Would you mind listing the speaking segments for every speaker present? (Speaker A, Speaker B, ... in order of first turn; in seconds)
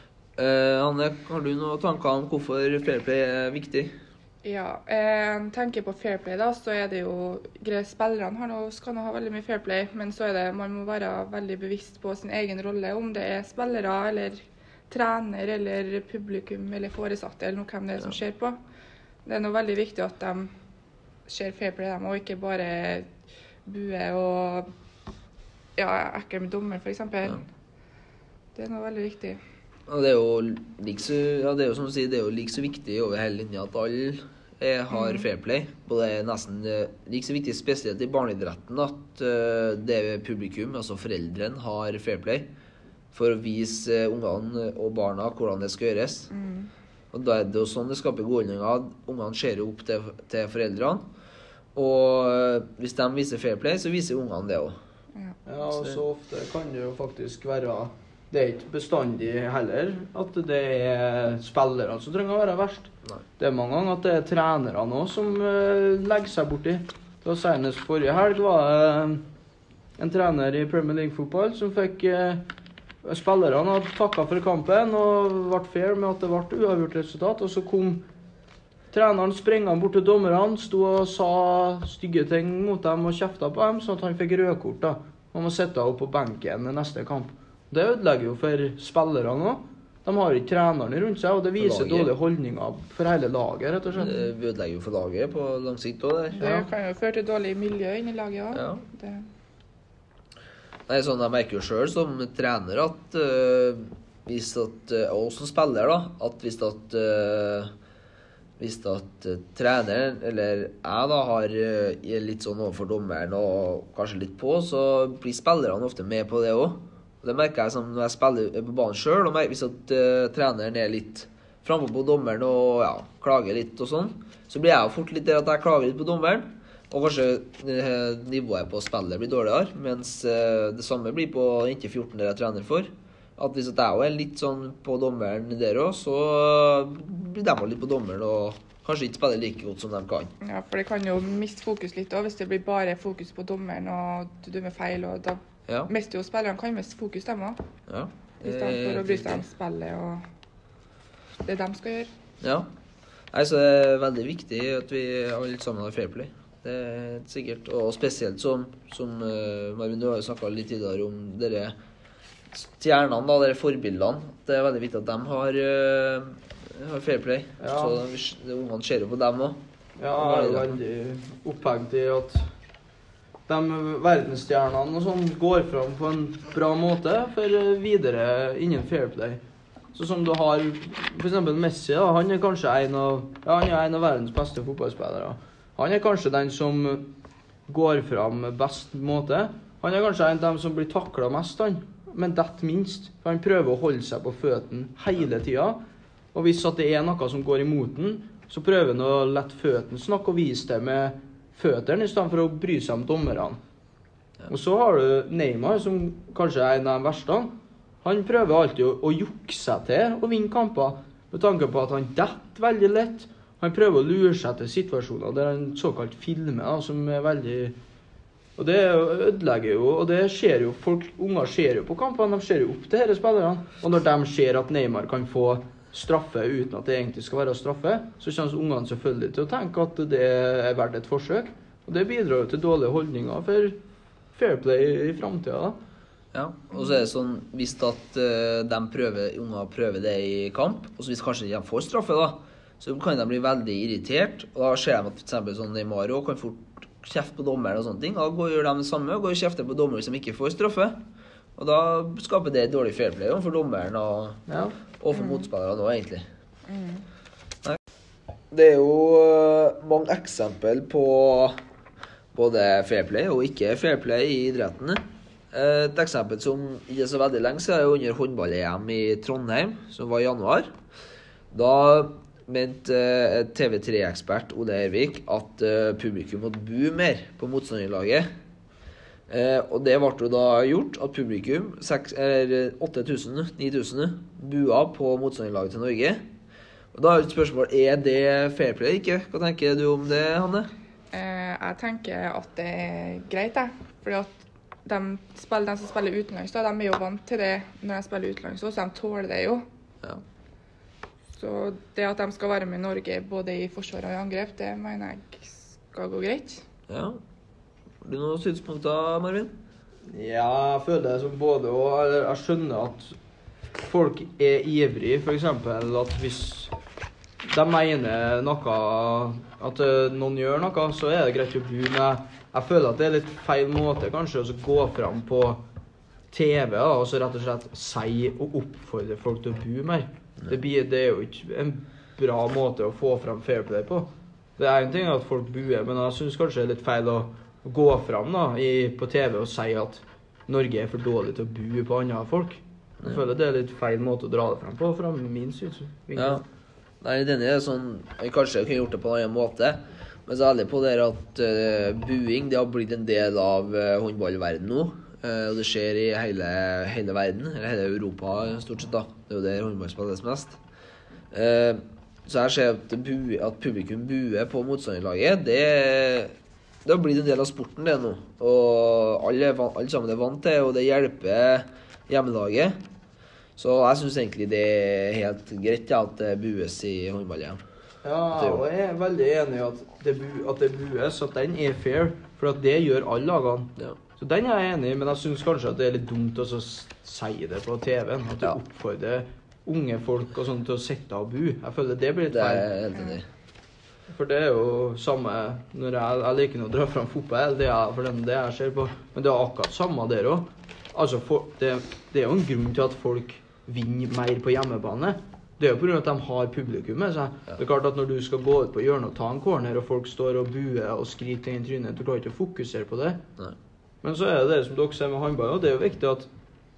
Speaker A: 0.4-3.9, 29.9-42.5, 43.1-46.3, 47.1-51.0, 51.8-54.8, 91.6-92.1, 93.9-96.5, 98.5-98.8, 100.9-107.7, 108.6-140.3, 147.9-149.5, 152.4-152.7, 153.3-161.8, 162.5-169.6, 170.1-170.8, 236.3-251.0, 251.6-254.4, 255.0-256.2, 258.5-261.6, 262.3-265.0, 265.5-270.7, 271.5-278.3, 279.3-286.2, 286.9-290.7, 306.9-307.2, 308.0-309.5, 346.1-346.4, 347.0-360.6, 361.3-366.3, 366.9-372.8, 373.6-377.6, 378.3-378.6, 392.3-393.3
Speaker B: 4.4-18.6, 19.2-20.5, 21.3-23.1, 23.6-24.7, 25.8-27.4, 28.6-29.4, 34.9-35.3, 46.3-46.7, 96.3-99.3, 140.4-147.6, 148.4-150.2, 151.4-152.1, 255.1-255.5, 256.7-257.0, 291.1-294.3, 294.9-299.6, 301.3-306.6, 392.9-393.2
Speaker C: 55.5-69.2, 70.0-72.4, 73.0-78.0, 78.9-94.2, 96.4-96.7, 167.6-168.0, 170.0-172.4, 173.5-179.4, 179.9-187.1, 187.7-195.8, 196.3-203.6, 204.5-207.5, 208.0-217.8, 218.6-233.8, 234.3-235.8, 254.5-254.8, 310.1-313.1, 313.9-316.7, 317.5-325.6, 326.3-346.4, 378.0-392.7, 394.1-413.2, 414.0-416.3